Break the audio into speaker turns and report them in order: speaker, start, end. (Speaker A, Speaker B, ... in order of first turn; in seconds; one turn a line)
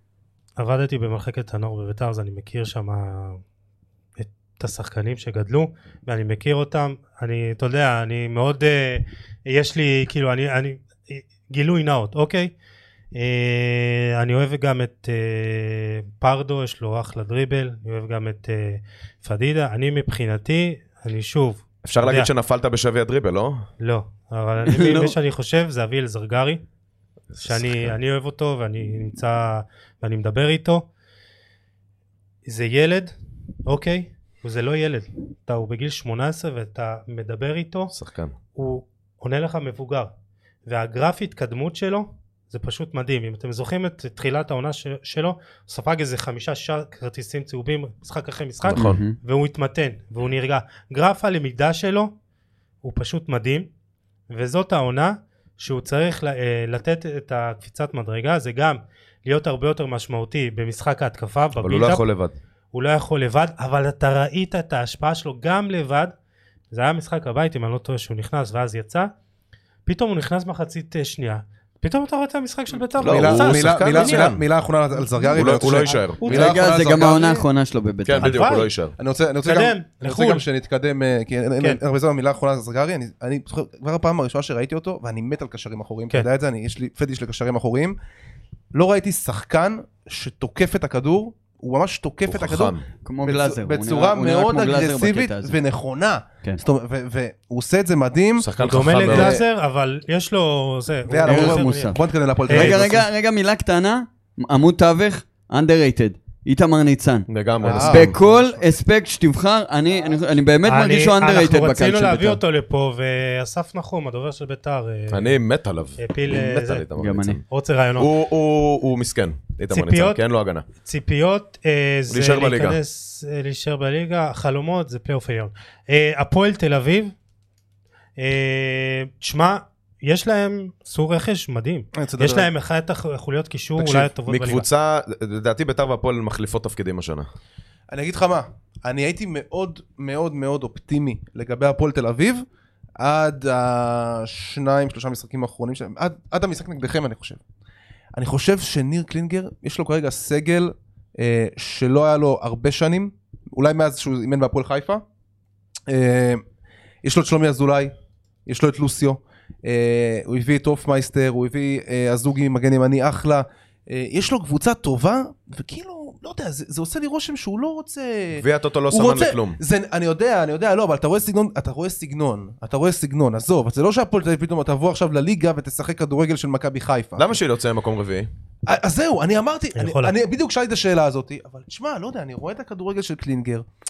Speaker A: 0.6-3.4
Speaker A: 4.2-12.5
Speaker A: 13.1-22.3
Speaker B: 21.8-23.7
Speaker A: 23.8-26.6
Speaker C: 24.7-25.1
Speaker B: 27.3-27.9
Speaker A: 27.4-30.9
Speaker A: 32.5-33.1
Speaker A: 33.6-37.9
Speaker B: 37.9-38.3
Speaker A: 38.5-40.1
Speaker A: 40.6-52.1
Speaker B: 48.6-49.0
Speaker C: 48.7-49.1
Speaker A: 52.8-53.7
Speaker A: 54.3-62.0
Speaker B: 61.6-62.3
Speaker A: 62.7-66.1
Speaker A: 66.7-69.1
Speaker A: 69.8-74.3
Speaker B: 73.0-74.4
Speaker D: 73.0-77.4
Speaker B: 75.3-76.2
Speaker A: 76.2-76.5
Speaker C: 76.2-78.4
Speaker B: 78.0-78.9
Speaker A: 78.2-78.7
Speaker D: 79.0-88.0
Speaker A: 79.4-80.4
Speaker D: 88.7-98.5
Speaker B: 92.3-92.8
Speaker C: 93.0-95.5
Speaker B: 98.4-99.4
Speaker A: 98.6-101.9
Speaker D: 99.0-99.4
Speaker D: 101.1-103.1
Speaker C: 101.2-112.4
Speaker A: 102.5-102.8
Speaker B: 107.3-108.2
Speaker D: 107.6-108.7
Speaker D: 109.9-110.2
Speaker A: 110.7-115.4
Speaker B: 115.1-117.4
Speaker A: 116.0-116.8
Speaker C: 117.0-117.4
Speaker A: 117.5-118.1
Speaker B: 118.0-120.6
Speaker A: 119.7-120.2
Speaker A: 120.8-127.1
Speaker B: 122.1-122.8
Speaker A: 128.2-134.7
Speaker D: 131.9-132.5
Speaker B: 133.8-137.3
Speaker D: 137.9-142.4
Speaker D: 143.0-147.4
Speaker D: 148.2-155.0
Speaker D: 155.9-156.4
Speaker D: 157.0-157.9
Speaker D: 158.5-177.4
Speaker B: 168.3-169.6
Speaker B: 177.2-178.3
Speaker D: 178.7-183.6
Speaker A: 179.8-180.1